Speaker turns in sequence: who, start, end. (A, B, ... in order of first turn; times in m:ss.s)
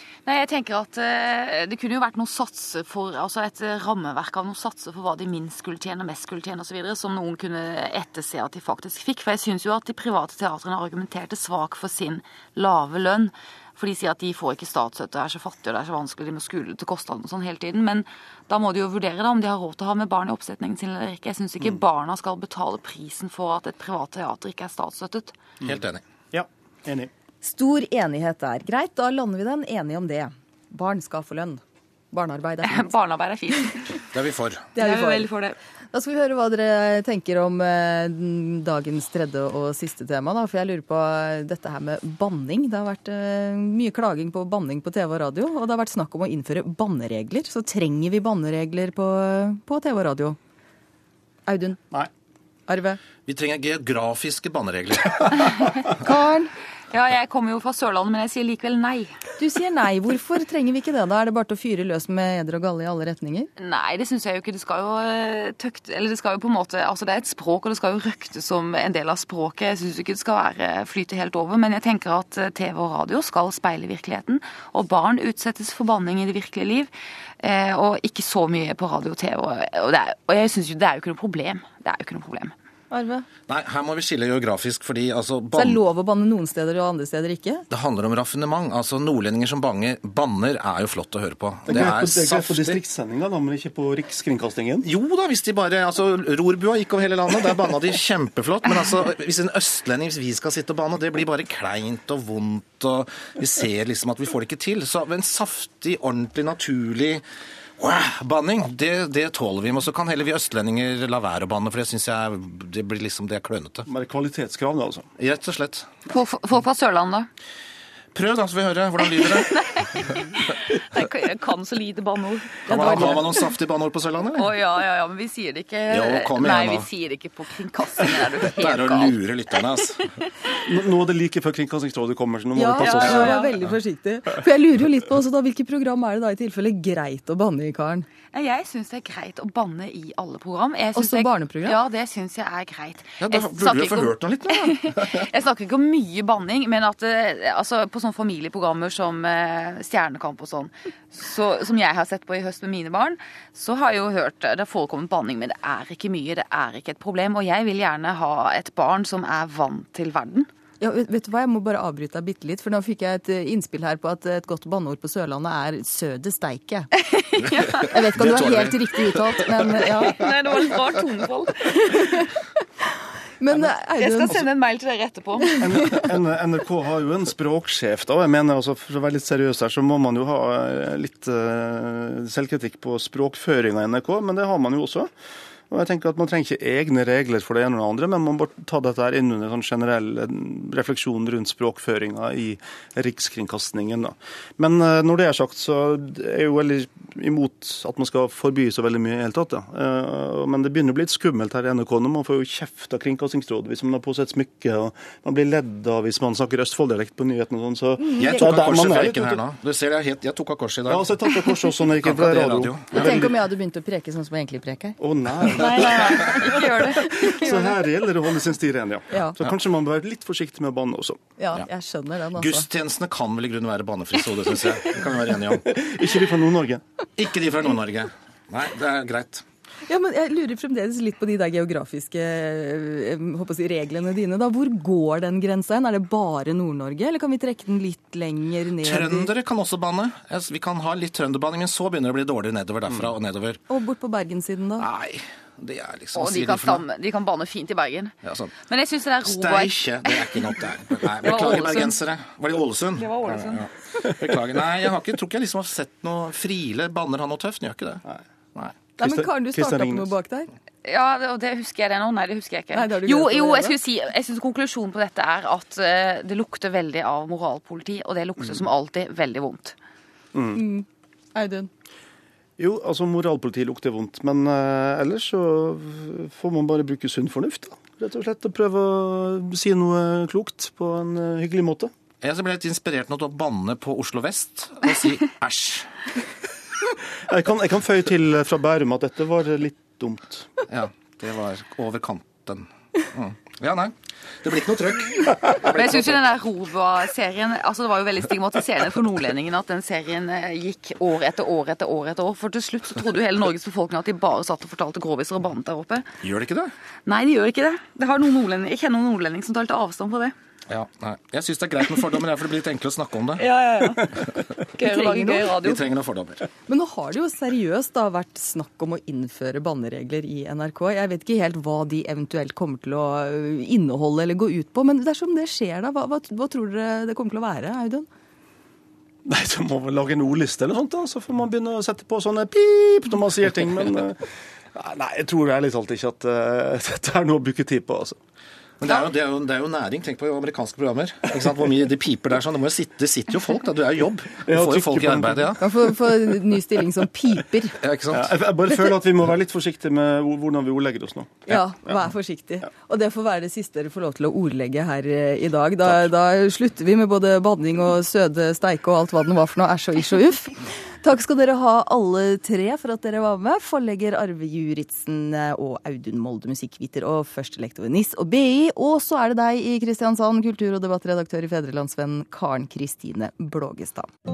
0:00.3-0:25.3 A
0:25.6-0:26.0 B
0:26.3-0:27.1 C
0:27.4-0:32.9 D
0:32.6-0:34.1 A
0:34.1-0:34.7 B
0:34.8-0:35.3 D
0:34.8-0:35.6 A
0:35.9-0:50.4 D
0:51.5-0:51.8 D
0:52.7-0:53.0 D
0:53.3-0:55.9 B
0:56.0-0:56.5 D
0:56.9-0:59.2 A
0:59.4-1:03.5 D
1:03.6-1:22.5 A
1:22.9-1:23.3 D
1:23.5-1:25.8 B
1:25.6-1:27.7 D
1:27.7-1:32.8 B
1:31.7-1:34.9 C
1:34.8-1:47.2 B
1:47.8-1:53.9 B
1:53.9-1:55.1 C
1:55.2-1:55.9 B
1:56.1-1:57.3 A
1:58.1-1:59.8 B
1:59.0-2:03.4 A
2:02.7-2:04.5 B
2:04.4-2:09.2 A
2:05.9-2:06.9 B
2:08.6-2:10.2 B
2:10.6-2:13.4 C
2:12.5-2:18.1 D
2:12.8-2:13.6 A
2:13.1-2:13.4 B
2:18.3-2:40.5 A
2:21.0-2:21.8 D
2:23.2-2:25.3 B
2:40.8-2:46.9 D
2:47.1-2:48.0 A
2:47.8-2:50.2 D
2:48.0-2:49.4 B
2:49.9-2:52.0 A
2:51.8-2:52.3 D
2:53.4-2:54.5 D
2:53.5-2:55.7 A
2:55.5-2:56.1 D
2:55.6-3:05.1 C
3:05.7-3:29.4 C
3:28.1-3:28.4 D
3:28.2-3:33.1 B
3:30.9-3:33.4 C
3:32.9-3:35.0 D
3:35.0-3:41.2 C
3:35.5-3:37.7 A
3:35.6-3:36.2 B
3:39.1-3:39.4 D
3:41.4-3:42.7 D
3:42.4-3:45.7 B
3:45.6-3:46.8 C
3:47.2-3:49.4 B
3:49.9-3:59.3 D
3:58.8-4:03.6 B
4:03.7-4:04.9 D
4:04.8-4:06.8 B
4:06.1-4:12.0 A
4:08.2-4:08.5 B
4:09.2-4:18.0 B
4:13.0-4:13.7 A
4:19.0-4:20.1 C
4:19.0-4:20.5 D
4:20.8-4:29.8 A
4:22.7-4:23.8 D
4:30.3-4:30.6 C
4:30.6-4:31.7 D
4:32.6-4:41.9 C
4:42.2-4:45.9 B
4:47.3-4:50.5 C
4:50.7-4:56.2 B
4:55.6-5:06.1 A
5:06.2-5:06.7 B
5:07.1-5:10.3 A
5:10.7-5:13.4 B
5:13.4-5:15.8 A
5:14.8-5:15.6 D
5:15.6-5:16.5 B
5:16.7-5:28.1 D
5:29.3-5:38.2 C
5:38.8-5:45.6 B
5:44.5-5:45.8 C
5:45.6-5:47.8 D
5:47.8-5:48.3 B
5:48.1-5:51.4 C
5:51.5-6:14.1 D